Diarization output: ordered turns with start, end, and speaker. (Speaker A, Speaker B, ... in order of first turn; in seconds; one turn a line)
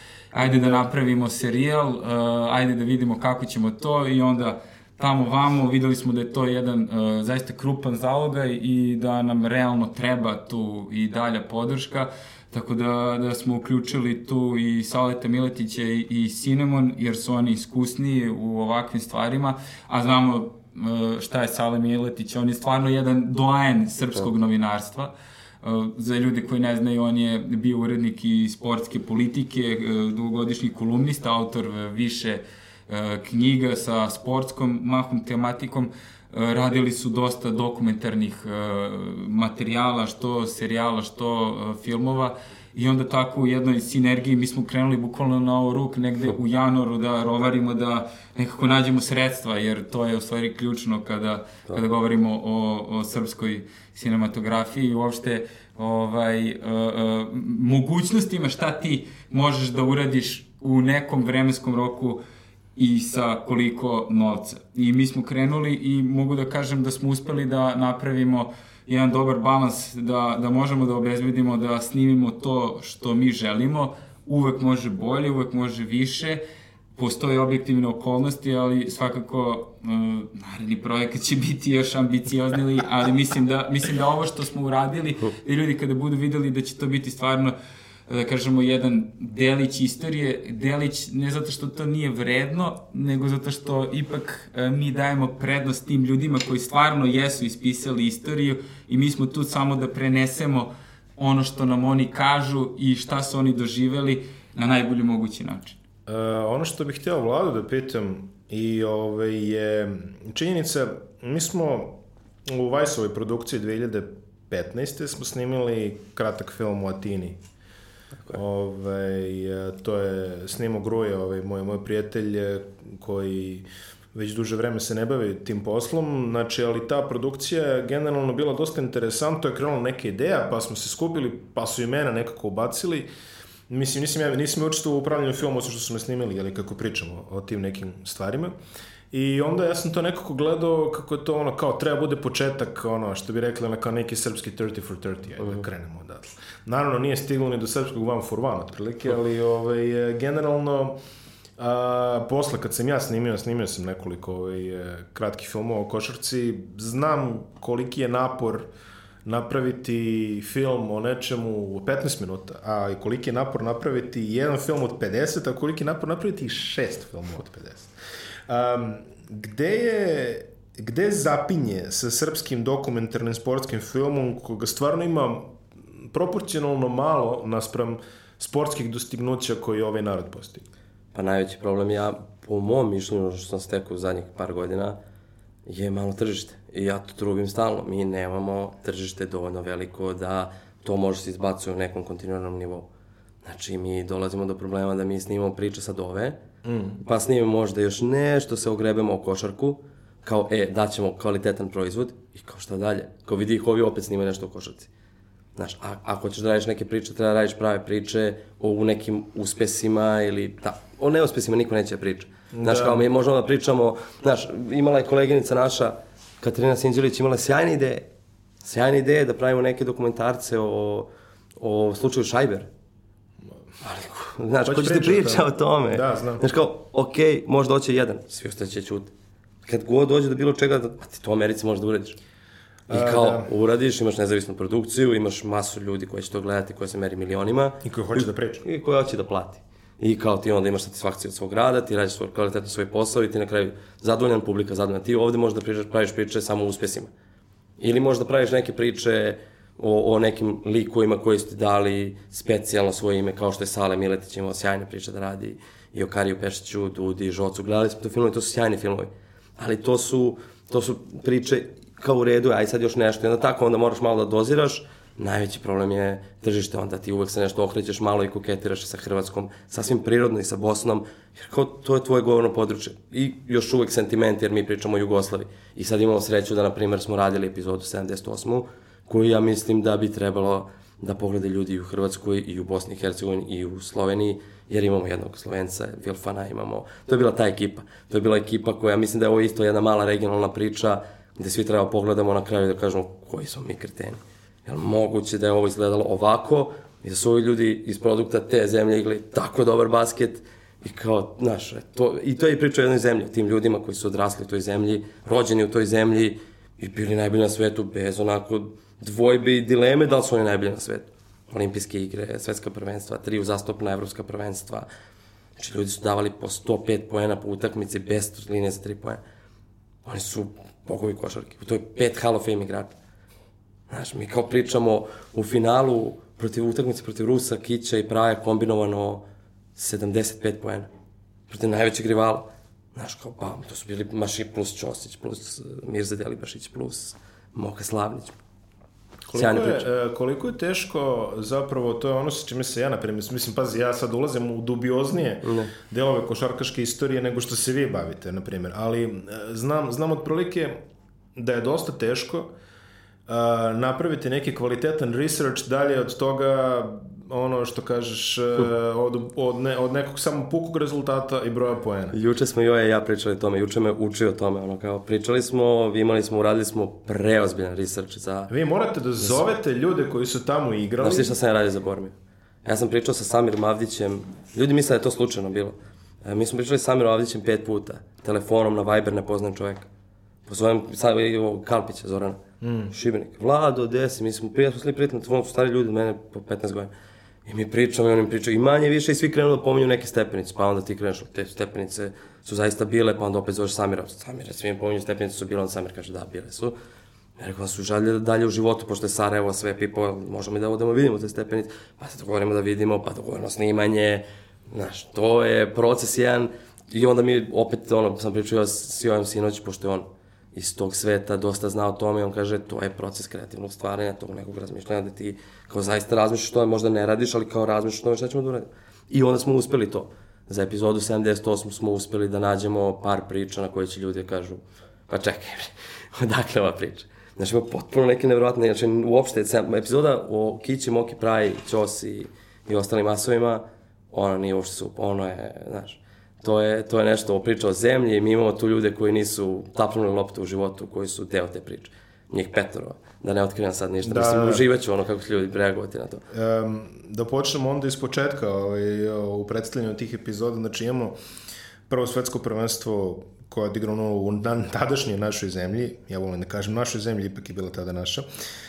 Speaker A: 0.3-62.2
Speaker A: 62.8-76.4
Speaker A: 77.0-87.5
Speaker A: 88.1-105.8
Speaker B: 106.1-117.4
Speaker B: 118.3-133.1
Speaker B: 133.7-138.5
Speaker B: 139.1-151.0
Speaker B: 151.6-158.7
Speaker B: 159.2-167.9
Speaker B: 168.5-180.7
Speaker C: 181.1-185.0
Speaker C: 185.7-192.9
Speaker C: 193.4-196.4
Speaker B: 196.6-197.0
Speaker C: 197.0-204.9
Speaker C: 205.6-218.1
Speaker B: 212.5-213.1
Speaker C: 218.6-222.7
Speaker C: 223.8-229.1
Speaker B: 224.6-226.4
Speaker C: 229.7-232.2
Speaker B: 232.9-233.5
Speaker C: 232.9-247.1
Speaker B: 237.8-238.6
Speaker C: 247.8-314.9
Speaker C: 315.6-319.2
Speaker C: 320.0-322.9
Speaker C: 323.9-329.2
Speaker C: 329.8-330.9
Speaker C: 331.5-338.4
Speaker C: 339.3-339.8
Speaker B: 339.3-350.8
Speaker C: 345.4-345.7
Speaker B: 351.4-352.5
Speaker B: 353.3-362.1
Speaker C: 362.1-368.5
Speaker B: 368.5-371.3
Speaker C: 371.0-372.1
Speaker C: 372.6-379.9
Speaker C: 380.4-386.9
Speaker B: 382.6-382.9
Speaker C: 387.4-396.7
Speaker C: 397.4-446.2
Speaker B: 444.0-444.6
Speaker B: 446.3-451.1
Speaker B: 451.9-458.2